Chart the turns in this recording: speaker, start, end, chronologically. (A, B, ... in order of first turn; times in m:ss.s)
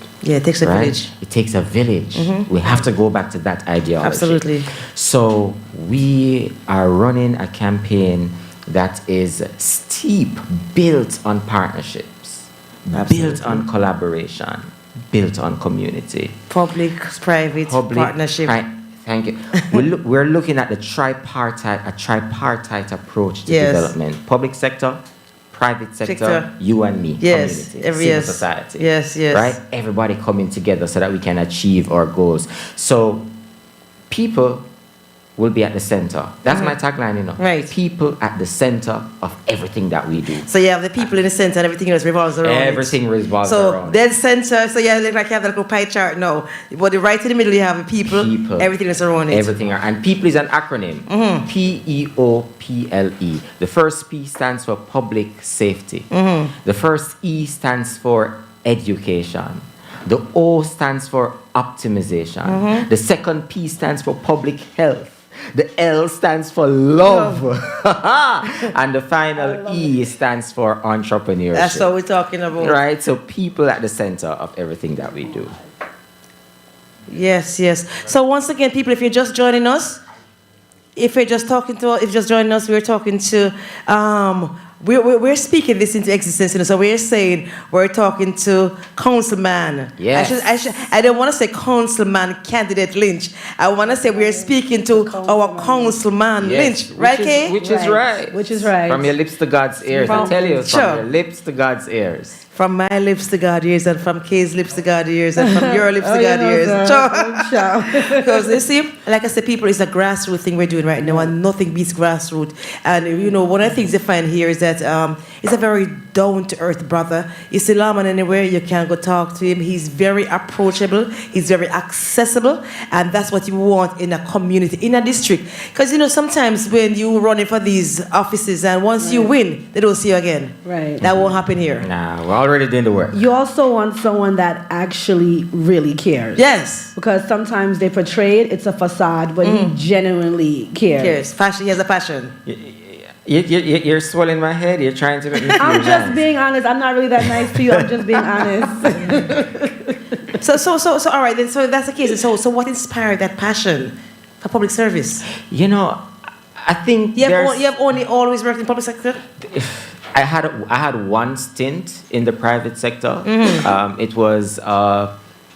0:00.2-0:01.1 A
0:00.6-0:16.4 B
0:02.1-0:02.8 A
0:04.0-0:04.7 A
0:12.9-0:13.6 A
0:16.5-0:18.5 A
0:17.7-0:33.3 B
0:19.5-0:19.8 A
0:23.5-0:23.9 A
0:26.0-0:26.5 A
0:27.2-0:29.6 A
0:34.1-0:34.6 B
0:35.4-0:40.5 B
0:36.5-0:36.7 A
0:37.4-0:37.7 A
0:40.4-0:49.5 A
0:42.4-0:44.0 B
0:48.1-0:48.7 B
0:49.3-0:56.1 B
0:51.1-0:51.5 A
0:56.1-0:56.5 A
0:56.6-1:11.9 B
1:02.4-1:02.9 A
1:07.0-1:07.4 A
1:09.4-1:09.9 C
1:11.5-1:12.8 A
1:12.6-1:15.6 B
1:17.1-1:20.0 A
1:20.9-1:37.6 A
1:30.0-1:30.4 B
1:33.8-1:36.0 C
1:36.4-1:42.4 B
1:37.6-1:39.2 C
1:39.9-1:40.6 C
1:40.0-1:41.0 A
1:42.5-2:11.9 A
1:45.4-1:48.6 C
1:51.0-1:51.3 C
2:09.0-2:09.3 C
2:10.6-2:11.0 C
2:11.8-2:13.2 B
2:13.1-2:16.4 C
2:16.3-2:16.9 A
2:16.9-2:21.2 C
2:19.4-2:19.8 A
2:20.9-2:22.3 A
2:22.4-2:26.2 B
2:25.4-2:25.7 A
2:25.6-2:29.9 C
2:30.4-2:35.2 A
2:35.5-2:36.0 B
2:36.6-2:37.6 B
2:37.1-2:39.2 A
2:39.4-2:45.1 B
2:43.2-2:43.7 A